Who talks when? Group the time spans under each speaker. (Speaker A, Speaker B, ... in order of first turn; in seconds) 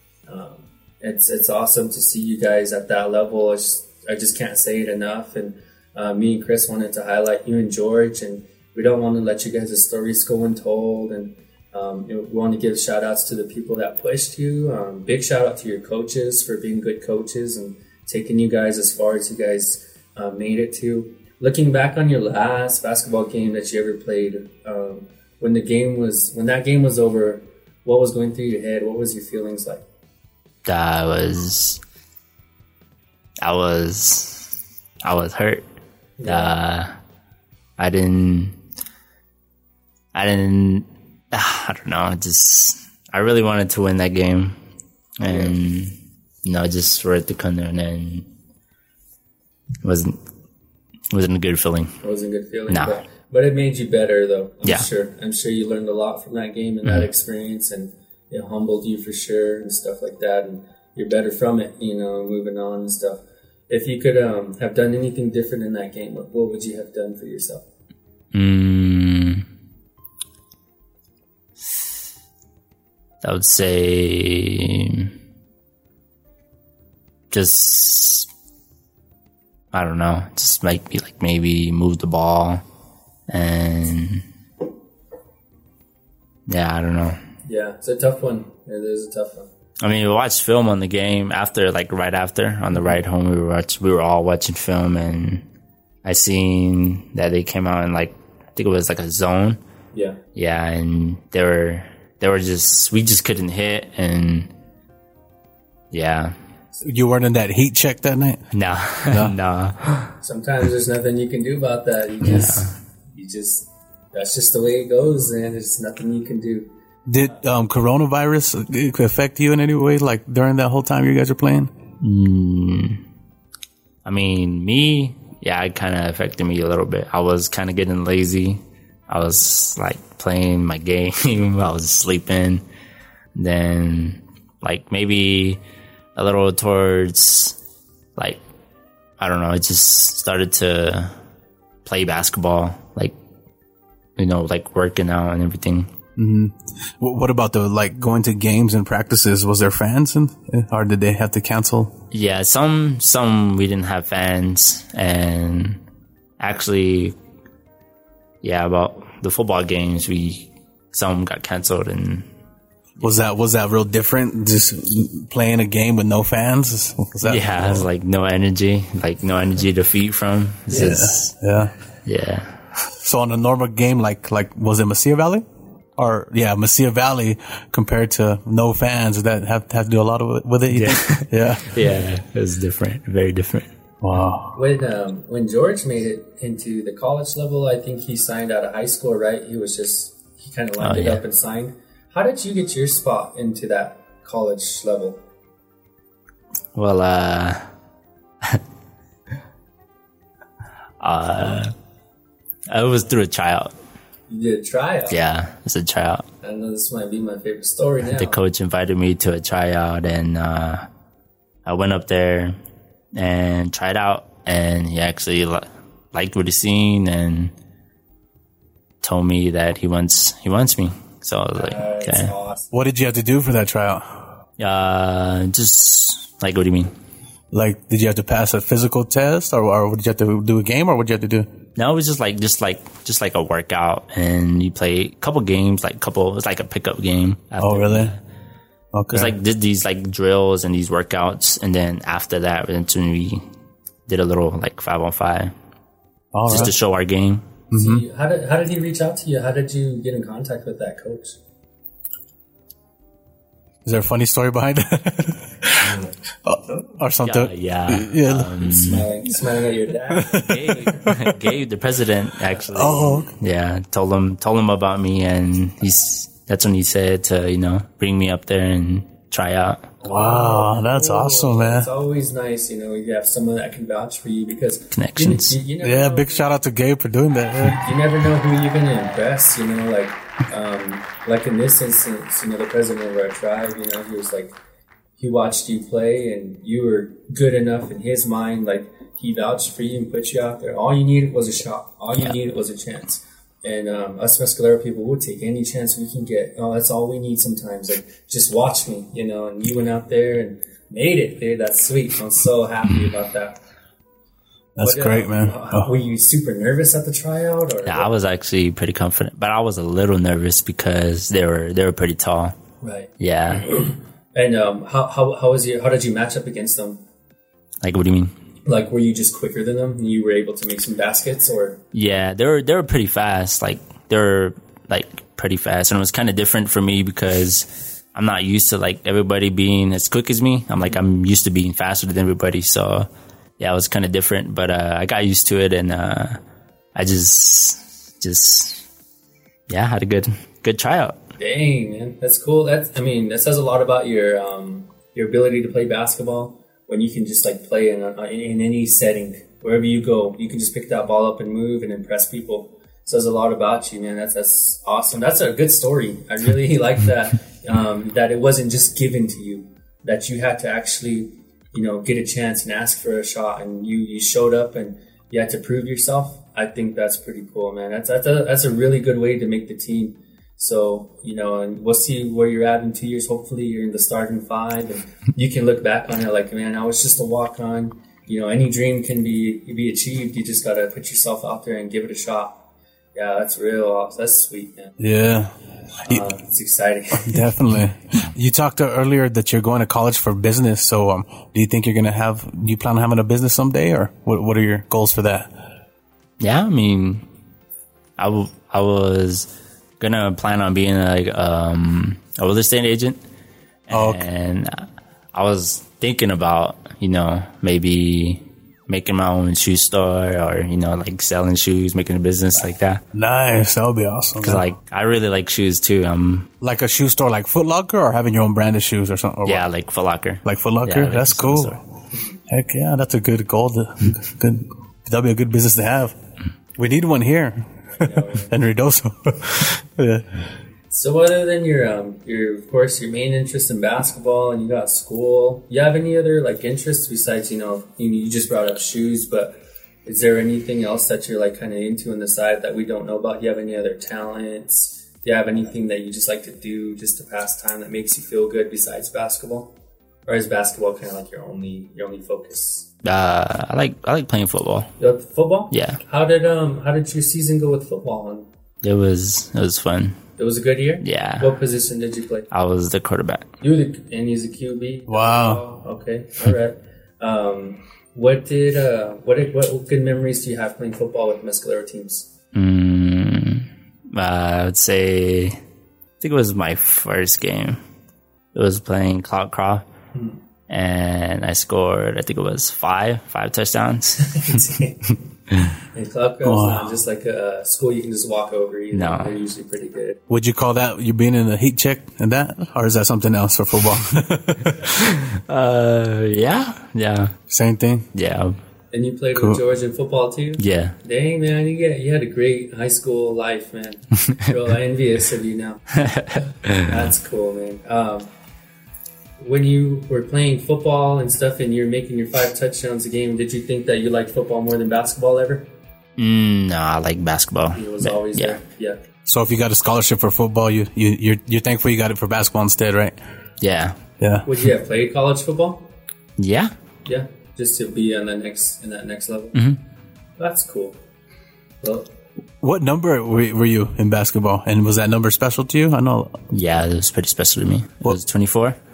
Speaker A: 0.3-29.8, 36.2-36.5, 45.2-45.6, 52.0-67.6, 87.5-89.5, 99.9-100.2, 110.2-116.7, 184.5-195.2, 204.3-205.2, 206.4-208.4, 221.5-222.7, 247.7-251.4, 258.6-261.1, 270.0-276.5, 277.6-284.6, 285.2-303.6, 304.8-308.1, 312.8-313.1, 313.7-317.0, 318.6-321.8, 341.4-382.6, 383.1-385.0, 386.0-387.5, 427.9-428.6, 430.9-449.7, 450.2-452.9, 455.0-458.5, 460.4-462.5, 463.6-472.3, 480.1-480.4, 484.2-485.2, 485.9-490.2, 498.9-508.3, 509.4-515.7, 517.7-519.0, 524.4-525.9, 527.0-529.6, 530.4-531.0, 531.8-532.1
Speaker B: 30.6-31.8, 33.4-34.5, 35.0-35.6, 36.2-36.9, 37.8-38.6, 40.1-44.6, 45.2-48.3, 49.8-50.2, 51.1-52.0, 52.7-53.0, 68.3-69.5, 73.2-75.1, 77.3-78.3, 79.7-82.6, 83.3-84.2, 86.5-87.2, 89.8-95.5, 96.0-99.6, 100.3-104.5, 105.9-106.3, 108.5-110.1, 112.2-112.7, 122.0-123.0, 124.0-132.6, 133.3-135.6, 136.2-137.6, 139.2-141.1, 141.8-143.1, 144.2-145.9, 152.1-155.8, 156.4-157.2, 158.4-162.3, 167.2-171.3, 172.0-172.6, 180.7-183.7, 190.8-191.2, 196.7-197.7, 201.0-201.7, 202.7-203.7, 205.1-206.3, 208.1-210.9, 211.6-212.6, 213.1-217.5, 219.0-222.3, 224.6-226.9, 231.8-238.2, 239.1-243.5, 244.1-245.5, 246.5-247.5, 257.2-259.1, 260.4-269.9, 274.9-275.6, 307.9-312.6, 313.2-313.7, 317.8-318.3, 321.9-333.1, 333.6-336.4, 336.9-338.9, 339.7-341.2, 396.4-397.2, 398.2-399.5, 400.0-403.2, 403.9-413.0, 414.4-416.5, 419.4-421.8, 453.0-454.9, 455.7-456.0, 458.8-460.2, 461.0-461.5, 462.5-463.5, 472.5-475.6, 476.2-477.8, 478.5-479.8, 480.7-484.6, 488.9-489.3, 494.8-497.4, 498.1-498.6, 500.6-501.0, 506.0-506.8, 516.2-518.6, 523.6-524.0, 526.4-526.7, 536.5-538.8
Speaker C: 106.8-108.4, 109.1-109.3, 117.1-121.7, 146.2-151.9, 163.0-167.9, 170.7-171.7, 172.9-175.4, 176.0-181.7, 184.0-184.6, 222.7-224.2, 227.5-231.5, 237.6-238.1, 238.9-239.3, 246.3-246.7, 247.7-248.0, 253.8-258.5, 260.1-260.5, 262.7-263.3, 270.0-271.9, 275.8-277.9, 304.8-305.9, 385.0-385.5, 387.2-395.5, 403.9-404.3, 413.1-414.6, 416.6-419.6, 420.4-421.8, 422.5-426.1, 426.8-430.3, 465.1-465.6, 486.4-486.9, 490.3-495.1, 497.5-498.1, 499.4-499.6, 519.2-523.1, 524.2-524.5, 532.6-536.4